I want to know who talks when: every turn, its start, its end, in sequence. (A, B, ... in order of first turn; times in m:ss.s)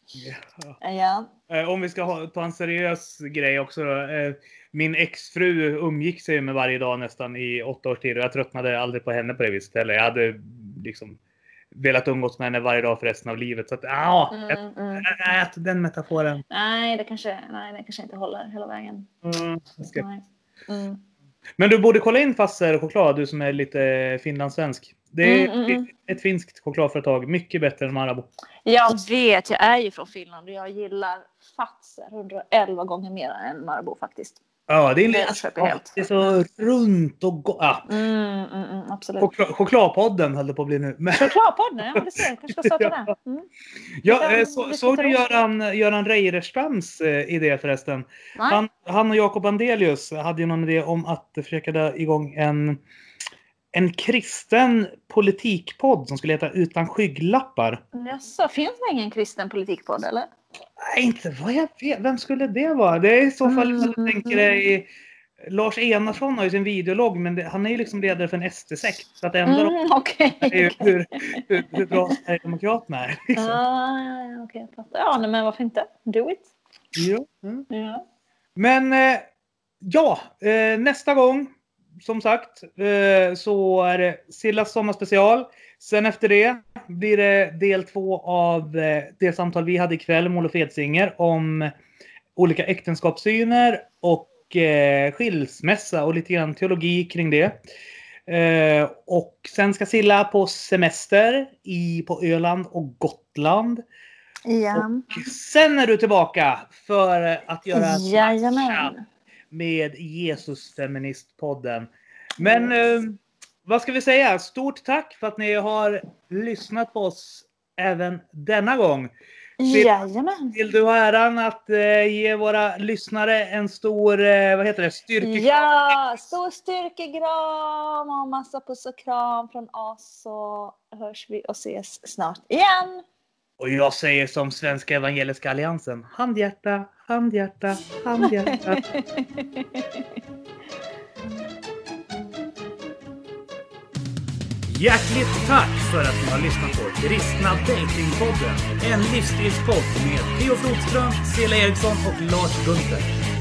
0:00.2-0:00.8 A
0:00.8-0:01.3 B
0:01.5-0:11.2 A
0:11.7-0:16.4 A
0:14.3-0:15.1 B
0:16.5-0:19.1 B
0:19.2-0:20.0 A
0:20.0-0:21.0 B
0:21.6-0:28.3 A
0:25.2-0:25.9 B
0:28.6-0:34.4 B
0:34.7-0:37.9 A
0:35.1-0:36.4 B
0:37.9-0:39.3 B
0:39.2-0:41.4 A
0:41.1-0:43.5 B
0:42.6-0:43.0 A
0:44.0-0:52.8 A
0:44.1-0:45.3 B
0:48.4-0:48.6 B
0:53.7-0:57.8 A
0:57.9-1:00.3 B
1:00.8-1:04.8 A
1:03.4-1:04.5 B
1:05.5-1:09.8 A
1:09.5-1:12.1 B
1:10.4-1:13.6 A
1:13.4-1:16.5 B
1:17.0-1:17.7 A
1:17.7-1:18.0 B
1:18.6-1:19.3 A
1:19.8-1:21.5 A
1:22.0-1:31.7 A
1:32.4-1:37.6 A
1:38.3-1:43.8 A
1:44.5-1:45.1 B
1:44.8-1:48.9 A
1:47.7-1:49.0 B
1:49.5-1:59.1 A
1:52.4-1:52.7 B
1:59.6-2:00.6 B
1:59.7-1:59.9 A
2:00.5-2:05.7 A
2:05.2-2:13.0 B
2:13.6-2:18.8 A
2:18.2-2:20.0 B
2:24.7-2:33.1 A